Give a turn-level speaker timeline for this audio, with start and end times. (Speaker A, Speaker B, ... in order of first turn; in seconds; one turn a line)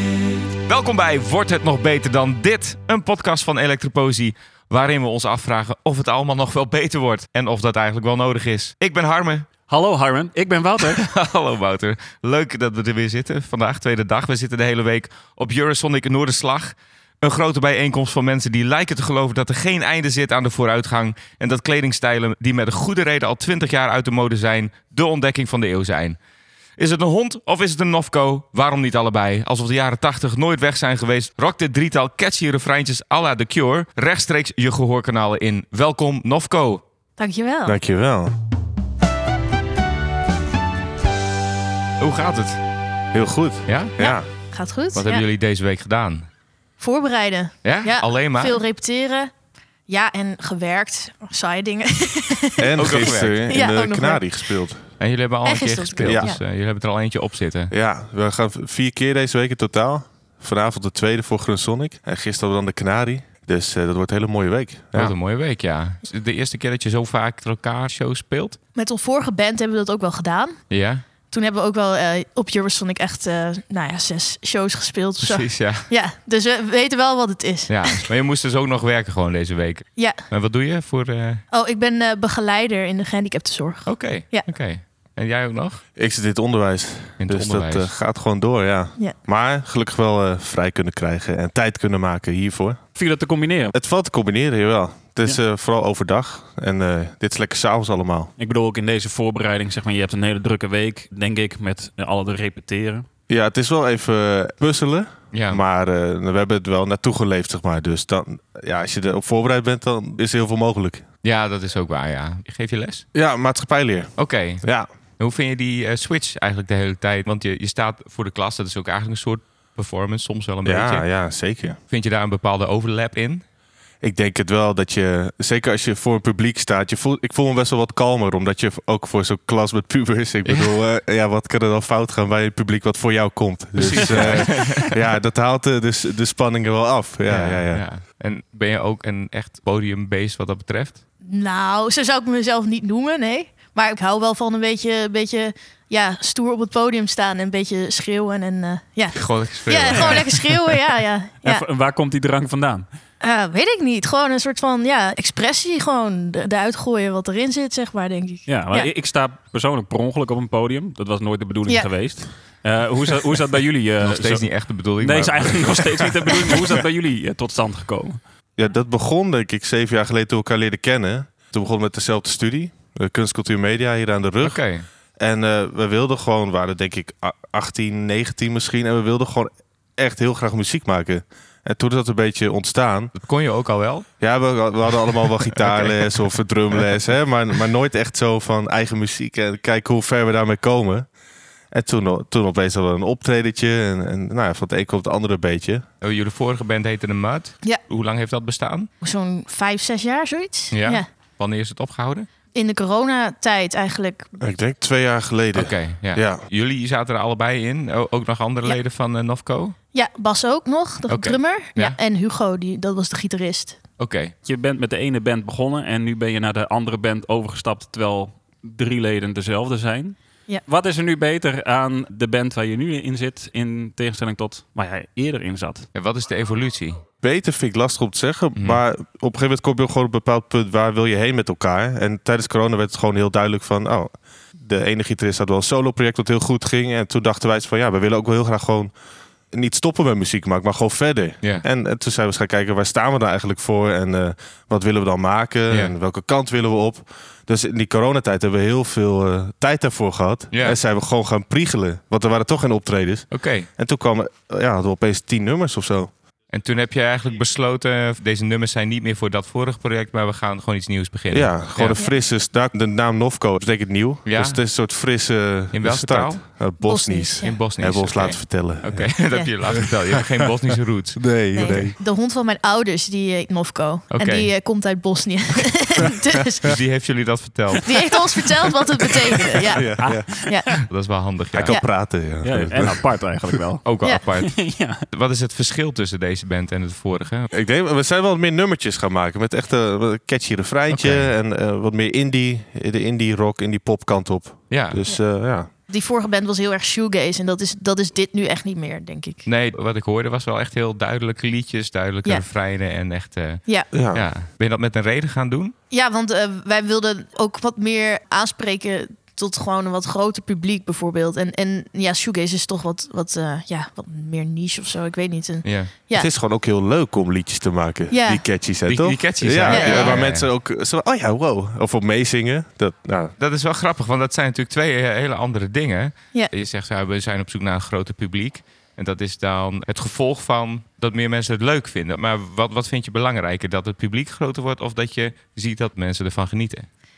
Speaker A: 0.7-9.5
Speaker B: 9.7-11.0
Speaker A: 10.8-26.2
Speaker A: 26.8-36.8
Speaker C: 37.2-37.8
Speaker D: 37.6-38.3
Speaker A: 42.0-42.6
Speaker D: 43.1-44.2
Speaker A: 43.7-44.0
Speaker C: 44.0-45.2
Speaker A: 44.9-46.2
Speaker C: 46.8-49.3
Speaker A: 47.6-48.6
Speaker C: 49.9-52.9
Speaker D: 52.6-54.9
Speaker A: 52.8-53.5
Speaker C: 53.5-54.3
Speaker A: 55.0-57.7
Speaker C: 55.4-56.4
Speaker D: 56.0-56.3
Speaker D: 57.7-65.2
Speaker A: 64.9-68.6
Speaker C: 68.7-70.6
Speaker A: 70.7-71.0
Speaker C: 71.3-78.0
Speaker A: 75.2-75.9
Speaker A: 77.7-81.4
Speaker C: 80.0-80.2
Speaker C: 81.5-84.5
Speaker A: 83.8-85.8
Speaker D: 86.0-92.8
Speaker A: 87.2-87.9
Speaker B: 92.9-93.7
Speaker D: 93.7-98.3
Speaker B: 98.4-103.0
Speaker D: 103.3-111.0
Speaker A: 105.3-105.6
Speaker A: 111.2-113.0
Speaker D: 113.1-114.9
Speaker A: 114.2-114.6
Speaker A: 115.2-121.1
Speaker D: 120.6-121.8
Speaker A: 121.9-123.4
Speaker D: 124.0-137.8
Speaker A: 130.4-130.7
Speaker A: 133.8-134.9
Speaker A: 137.3-141.0
Speaker C: 141.2-151.7
Speaker A: 149.1-150.2
Speaker B: 149.9-150.7
Speaker B: 151.4-152.9
Speaker C: 153.2-158.9
Speaker B: 158.4-168.2
Speaker A: 164.0-166.7
Speaker D: 168.6-174.6
Speaker A: 174.4-174.9
Speaker D: 175.2-183.1
Speaker A: 183.2-184.1
Speaker D: 184.2-191.1
Speaker D: 191.7-195.8
Speaker A: 196.0-198.9
Speaker C: 199.0-201.1
Speaker A: 200.7-202.3
Speaker C: 202.5-204.3
Speaker D: 204.4-206.5
Speaker A: 205.5-209.8
Speaker C: 209.9-213.8
Speaker A: 211.1-212.0
Speaker A: 214.0-214.3
Speaker B: 214.4-225.9
Speaker A: 225.9-227.0
Speaker D: 227.2-238.9
Speaker A: 228.6-228.8
Speaker D: 239.5-256.1
Speaker A: 245.7-245.9
Speaker A: 250.5-250.8
Speaker A: 253.3-253.7
Speaker A: 256.5-262.0
Speaker D: 261.3-270.2
Speaker A: 264.2-264.6
Speaker A: 265.7-266.4
Speaker C: 266.8-267.6
Speaker A: 267.4-271.9
Speaker D: 271.1-271.9
Speaker C: 271.5-276.7
Speaker A: 274.1-274.5
Speaker A: 276.6-278.2
Speaker C: 277.8-280.8
Speaker D: 279.7-280.3
Speaker B: 280.0-280.8
Speaker A: 280.9-281.8
Speaker D: 281.5-283.0
Speaker B: 282.3-283.8
Speaker A: 283.8-284.5
Speaker B: 284.4-285.0
Speaker A: 285.1-287.5
Speaker D: 287.5-295.7
Speaker A: 290.9-291.3
Speaker A: 294.7-295.0
Speaker C: 295.0-295.3
Speaker C: 295.9-299.4
Speaker A: 299.4-305.7
Speaker D: 303.9-304.2
Speaker C: 305.9-316.3
Speaker A: 315.6-315.9
Speaker D: 316.1-323.3
Speaker C: 318.1-318.4
Speaker A: 318.9-320.5
Speaker C: 319.7-320.2
Speaker A: 323.4-336.9